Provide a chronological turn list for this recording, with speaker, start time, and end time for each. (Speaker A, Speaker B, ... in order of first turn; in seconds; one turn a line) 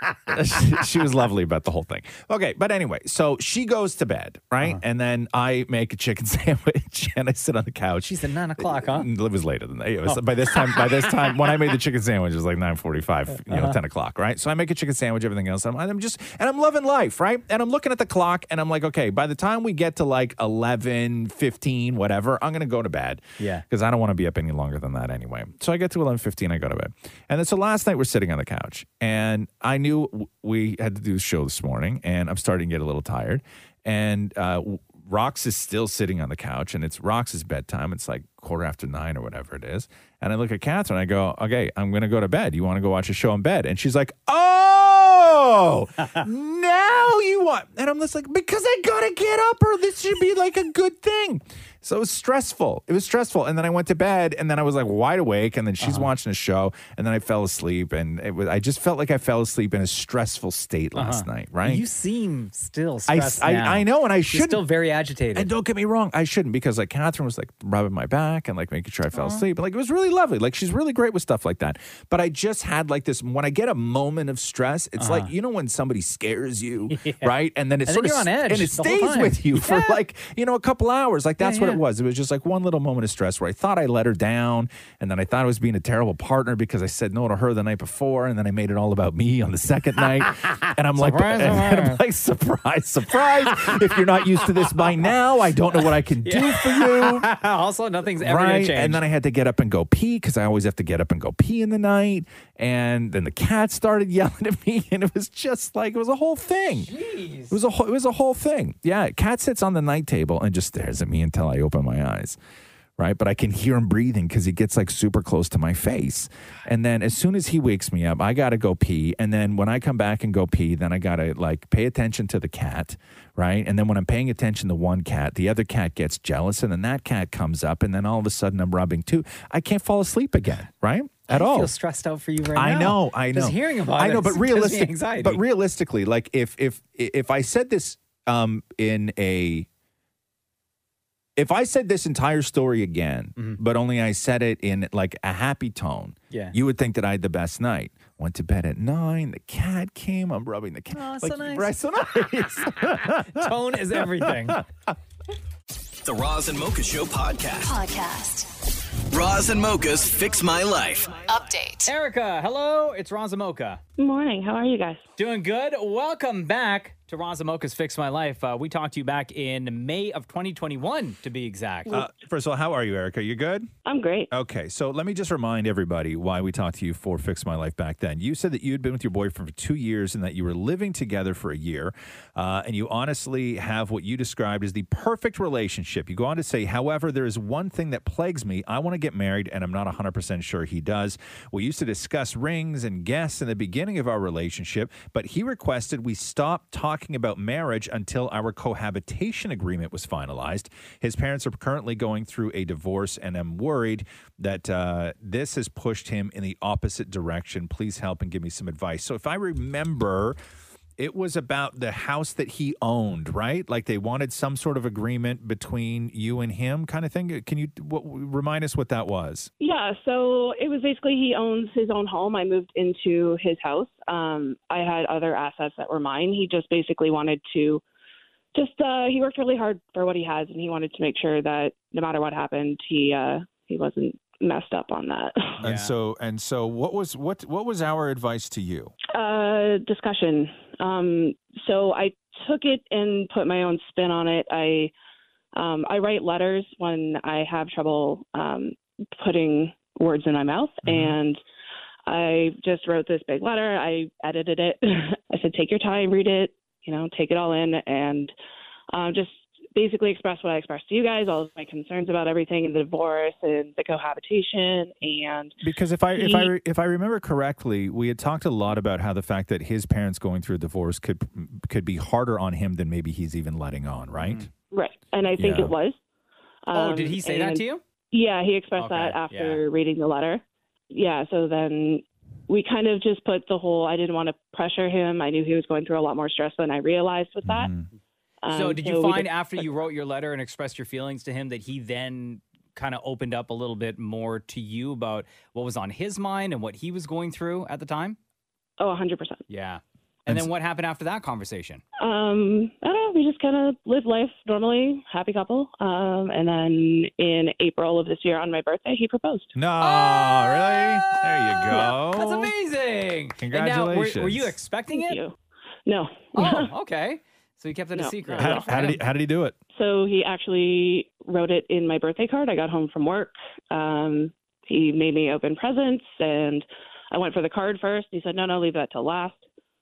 Speaker A: 0.3-61.8
Speaker B: 8.1-9.1
Speaker B: 10.1-11.5
Speaker B: 13.5-13.8
Speaker B: 23.4-23.6
Speaker B: 55.8-56.1
Speaker B: 60.9-65.5
Speaker A: 63.1-64.6
Speaker A: 65.3-97.3
Speaker B: 69.1-69.4
Speaker B: 75.0-75.3
Speaker B: 76.9-77.3
Speaker B: 77.8-80.0
Speaker B: 81.4-81.8
Speaker B: 90.4-92.0
Speaker B: 93.4-95.1
Speaker B: 95.8-99.0
Speaker A: 98.2-106.9
Speaker B: 106.8-107.6
Speaker A: 107.5-112.4
Speaker A: 113.0-131.7
Speaker B: 131.3-135.4
Speaker A: 132.5-139.7
Speaker A: 141.3-154.9
Speaker B: 146.3-146.6
Speaker B: 150.9-151.7
Speaker B: 152.9-154.6
Speaker C: 156.0-158.0
Speaker C: 159.1-161.8
Speaker B: 161.8-163.8
Speaker D: 164.0-165.0
Speaker B: 165.2-172.0
Speaker A: 171.9-173.7
Speaker D: 173.8-174.3
Speaker A: 174.3-210.4
Speaker A: 211.0-219.5
Speaker D: 219.6-227.8
Speaker D: 228.5-235.5
Speaker B: 235.6-235.9
Speaker A: 235.6-238.9
Speaker D: 239.1-244.9
Speaker D: 245.5-251.4
Speaker A: 250.8-251.1
Speaker D: 252.1-258.3
Speaker D: 258.9-265.6
Speaker A: 265.6-274.4
Speaker D: 266.1-266.5
Speaker B: 274.2-274.5
Speaker D: 274.7-275.9
Speaker A: 275.4-275.7
Speaker D: 276.7-287.7
Speaker B: 276.7-277.8
Speaker B: 278.8-279.6
Speaker A: 287.4-287.9
Speaker D: 288.4-289.4
Speaker B: 288.5-298.2
Speaker D: 298.8-299.4
Speaker B: 299.5-301.8
Speaker D: 302.0-309.5
Speaker A: 309.5-312.5
Speaker B: 309.8-315.2
Speaker A: 313.4-314.5
Speaker D: 314.9-315.3
Speaker D: 315.9-316.7
Speaker B: 316.3-319.0
Speaker D: 317.9-318.8
Speaker A: 318.4-319.6
Speaker D: 319.7-329.4